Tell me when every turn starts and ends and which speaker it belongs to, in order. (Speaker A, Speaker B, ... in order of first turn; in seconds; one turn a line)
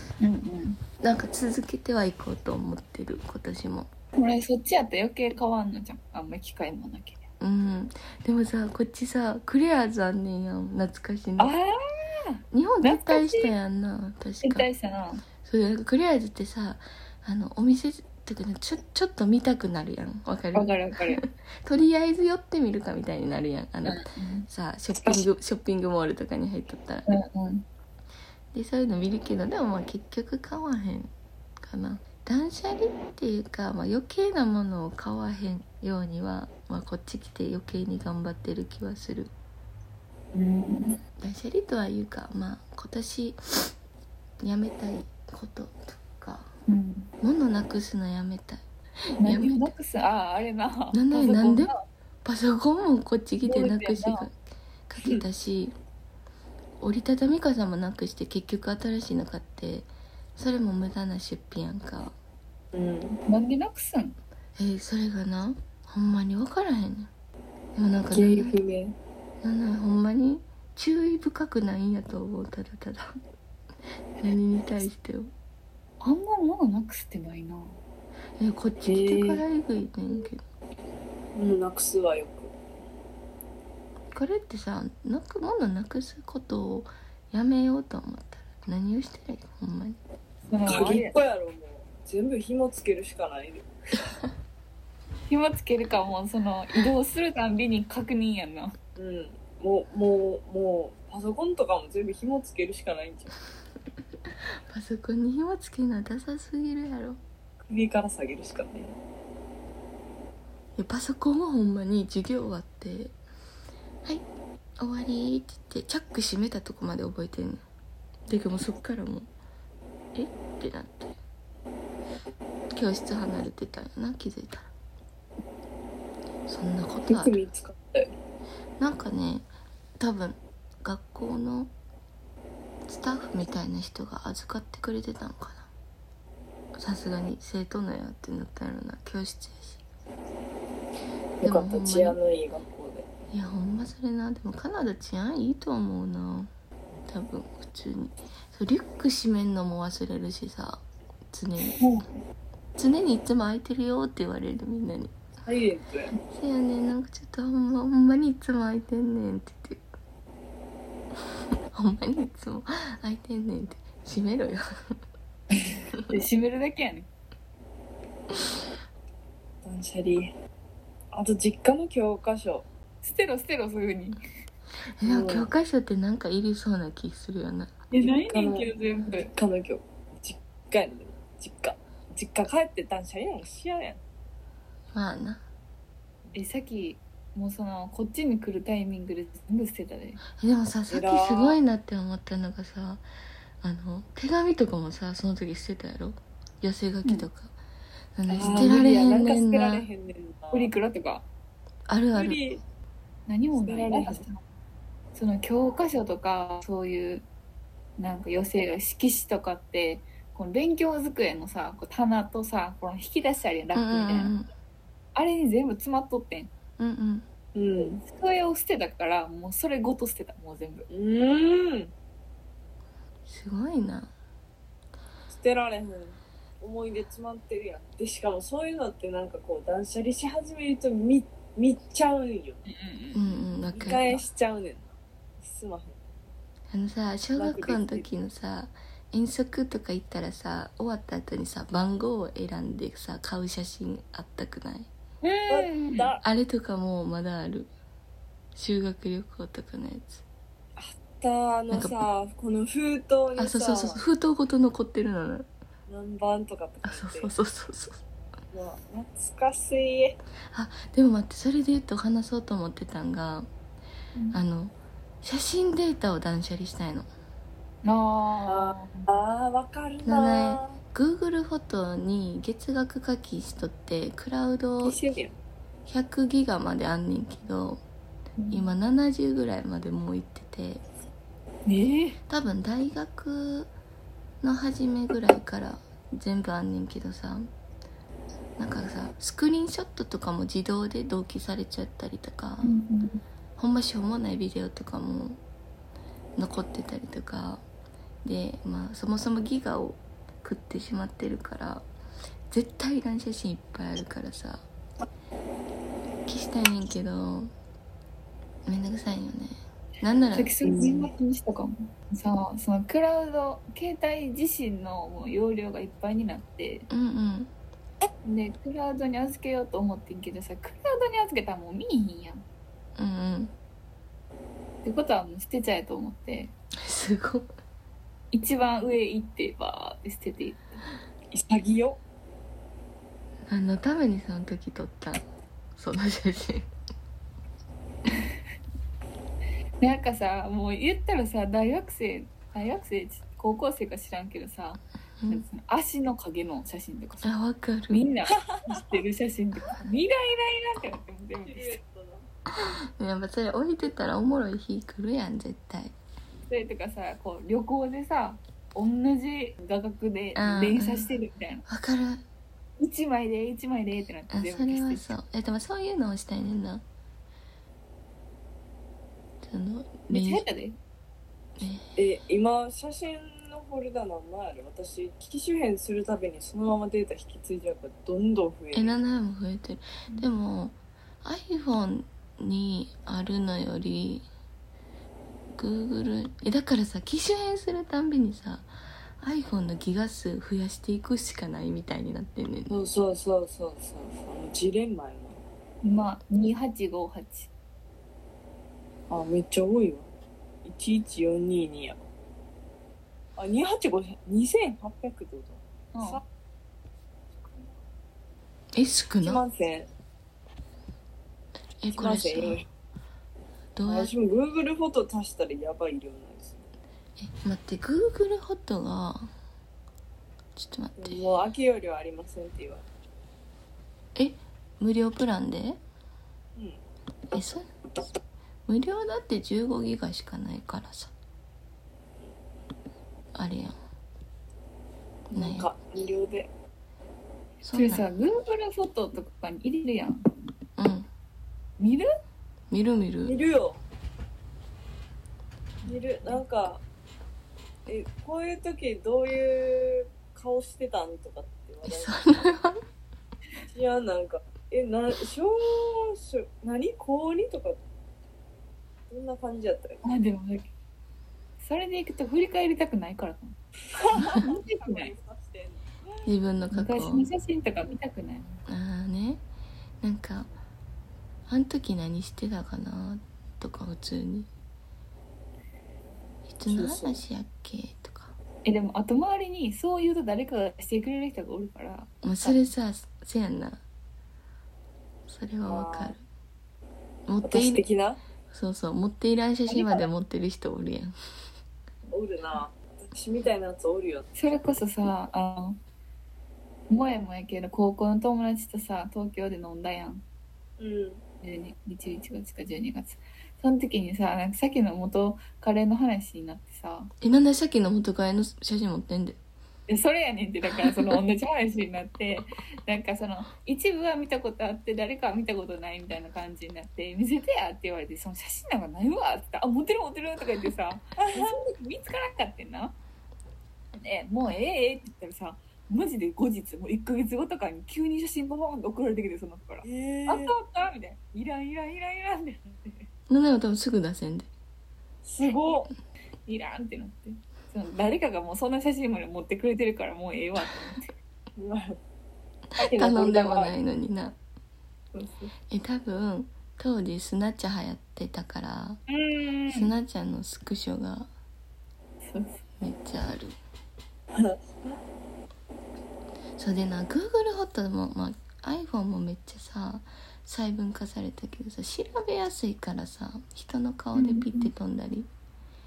Speaker A: 0.2-0.8
Speaker B: 1.0-3.9
Speaker A: 4.2-7.2
Speaker B: 7.4-11.5
Speaker A: 11.4-13.5
Speaker B: 12.5-14.7
Speaker A: 14.4-15.2
Speaker B: 15.4-27.1
Speaker A: 20.5-21.2
Speaker A: 23.8-24.5
Speaker A: 27.1-27.6
Speaker B: 28.5-39.3
Speaker A: 40.3-41.0
Speaker B: 41.2-43.7
Speaker B: 44.4-46.5
Speaker A: 46.7-47.1
Speaker B: 47.2-48.6
Speaker A: 49.2-51.8
Speaker B: 49.2-49.7
Speaker B: 50.9-51.7
Speaker B: 52.2-54.3
Speaker C: 53.5-54.0
Speaker A: 53.6-54.2
Speaker B: 54.9-55.7
Speaker B: 56.8-62.1
Speaker C: 62.7-63.2
Speaker A: 63.3-64.2
Speaker B: 64.6-67.1
Speaker B: 67.7-68.5
Speaker C: 68.1-69.0
Speaker B: 69.4-73.1
Speaker B: 74.2-75.3
Speaker A: 76.0-77.8
Speaker B: 78.4-80.4
Speaker C: 78.8-79.4
Speaker C: 81.3-82.5
Speaker B: 84.1-90.0
Speaker A: 90.5-91.1
Speaker C: 90.7-93.7
Speaker A: 95.3-98.8
Speaker C: 99.0-103.4
Speaker B: 104.7-107.2
Speaker C: 107.7-109.0
Speaker B: 110.8-113.1
Speaker B: 114.8-117.6
Speaker B: 118.3-119.3
Speaker B: 120.1-121.2
Speaker B: 122.7-124.7
Speaker B: 126.5-127.4
Speaker C: 127.1-128.1
Speaker B: 128.8-129.5
Speaker B: 130.0-131.7
Speaker B: 132.8-135.7
Speaker B: 136.7-139.8
Speaker C: 141.4-143.1
Speaker B: 141.4-142.2
Speaker B: 143.3-146.5
Speaker B: 147.1-151.8
Speaker C: 151.8-152.0
Speaker B: 152.8-155.1
Speaker C: 155.4-156.1
Speaker B: 156.3-159.9
Speaker B: 161.7-164.9
Speaker A: 166.1-167.1
Speaker C: 169.6-170.3
Speaker C: 171.1-172.7
Speaker A: 173.0-174.2
Speaker B: 175.0-177.7
Speaker C: 175.0-175.5
Speaker A: 177.9-179.3
Speaker C: 178.3-184.0
Speaker B: 184.9-185.4
Speaker A: 186.3-190.2
Speaker B: 190.3-193.0
Speaker C: 190.9-191.6
Speaker B: 193.6-197.5
Speaker B: 198.1-199.9
Speaker C: 198.3-200.7
Speaker A: 198.4-198.8
Speaker A: 200.5-201.2
Speaker B: 201.9-202.4
Speaker C: 202.1-202.6
Speaker A: 203.3-204.4
Speaker C: 203.5-204.2
Speaker A: 205.1-207.2
Speaker A: 208.0-214.3
Speaker B: 213.7-214.5
Speaker A: 215.1-216.5
Speaker B: 216.8-217.2
Speaker C: 217.5-218.0
Speaker A: 218.0-220.9
Speaker C: 220.9-221.9
Speaker B: 223.2-224.1
Speaker C: 225.3-232.6
Speaker A: 232.7-234.2
Speaker B: 233.1-234.2
Speaker C: 233.7-236.2
Speaker B: 236.7-244.9
Speaker C: 237.3-238.1
Speaker A: 245.2-246.1
Speaker C: 245.5-246.2
Speaker B: 246.2-247.7
Speaker B: 248.5-250.2
Speaker C: 250.8-254.0
Speaker B: 251.7-252.0
Speaker B: 253.4-255.5
Speaker C: 255.9-257.3
Speaker B: 256.8-258.0
Speaker C: 258.5-260.2
Speaker B: 260.5-263.5
Speaker B: 264.3-267.1
Speaker A: 267.8-269.1
Speaker C: 268.5-270.8
Speaker B: 270.0-275.0
Speaker C: 274.9-275.3
Speaker B: 275.9-277.8
Speaker A: 278.4-278.7
Speaker B: 278.5-280.8
Speaker A: 281.6-282.2
Speaker B: 282.3-283.7
Speaker B: 284.4-287.5
Speaker B: 288.6-292.8
Speaker A: 292.6-293.2
Speaker B: 293.6-295.4
Speaker B: 296.4-297.6
Speaker B: 298.2-301.9
Speaker B: 302.5-304.6
Speaker B: 306.2-307.5
Speaker B: 308.6-310.5
Speaker A: 310.3-316.9
Speaker C: 310.6-311.1
Speaker B: 316.9-317.5
Speaker A: 318.2-322.4
Speaker B: 323.0-323.5
Speaker A: 324.8-326.5
Speaker B: 326.8-327.5
Speaker A: 328.3-330.8
Speaker C: 331.3-332.0
Speaker B: 333.5-335.2
Speaker B: 335.8-336.7
Speaker A: 339.8-347.3
Speaker B: 347.2-348.0
Speaker A: 347.9-351.8
Speaker C: 351.4-352.2
Speaker B: 352.5-355.9
Speaker A: 356.5-361.6
Speaker B: 360.3-361.1
Speaker B: 361.7-362.2
Speaker A: 362.8-365.2
Speaker B: 364.3-366.8
Speaker B: 369.4-370.4
Speaker A: 370.1-370.8
Speaker B: 371.6-371.8
Speaker C: 371.9-379.0
Speaker B: 378.7-384.3
Speaker B: 385.5-392.7
Speaker C: 392.7-395.4
Speaker A: 395.8-397.5
Speaker C: 399.1-400.1
Speaker C: 400.6-402.0
Speaker C: 403.4-406.2
Speaker A: 405.9-406.2
Speaker C: 407.4-407.8
Speaker B: 408.7-409.4
Speaker C: 409.2-409.9
Speaker B: 411.8-412.6
Speaker C: 411.9-412.7
Speaker B: 413.8-414.1
Speaker C: 413.8-416.7
Speaker B: 417.2-419.3
Speaker B: 420.6-421.2
Speaker C: 421.0-422.9
Speaker B: 424.1-425.8
Speaker C: 426.6-426.8
Speaker B: 427.3-427.7
Speaker B: 428.6-431.1
Speaker B: 433.3-433.8
Speaker B: 435.3-435.7
Speaker C: 435.3-436.5
Speaker B: 437.6-438.0
Speaker A: 437.7-440.2
Speaker B: 440.8-441.1
Speaker A: 441.8-442.1
Speaker B: 442.7-443.3
Speaker C: 443.2-443.8
Speaker C: 445.9-446.8
Speaker A: 445.9-446.4
Speaker C: 447.9-452.6
Speaker B: 451.9-452.8
Speaker C: 453.7-457.8
Speaker C: 459.1-460.0
Speaker A: 460.0-460.7
Speaker A: 461.6-463.6
Speaker C: 463.9-466.3
Speaker A: 464.1-465.1
Speaker B: 466.2-467.3
Speaker A: 466.7-468.6
Speaker B: 468.7-469.4
Speaker B: 470.0-470.5
Speaker B: 471.5-474.5
Speaker B: 476.5-478.3
Speaker C: 476.7-477.2
Speaker A: 478.6-482.7
Speaker B: 482.2-483.8
Speaker B: 485.3-486.2
Speaker C: 485.6-486.2
Speaker B: 487.3-487.8
Speaker C: 487.4-488.2
Speaker B: 488.5-491.1
Speaker C: 489.7-490.0
Speaker C: 492.1-494.4
Speaker A: 494.4-495.8
Speaker A: 496.9-500.2
Speaker C: 500.8-501.2
Speaker A: 501.4-507.1
Speaker B: 507.2-509.4
Speaker A: 509.9-523.0
Speaker C: 521.2-521.5
Speaker A: 523.9-533.1
Speaker C: 529.8-530.5
Speaker B: 533.3-534.5
Speaker C: 535.2-535.9
Speaker A: 536.5-541.1
Speaker C: 541.5-542.0
Speaker B: 542.8-544.4
Speaker C: 542.8-543.7
Speaker A: 545.1-545.5
Speaker B: 545.7-549.0
Speaker A: 549.1-549.9
Speaker B: 549.7-551.3
Speaker A: 552.2-552.6
Speaker B: 552.8-553.5
Speaker C: 554.3-555.0
Speaker B: 556.6-565.3
Speaker A: 564.1-564.7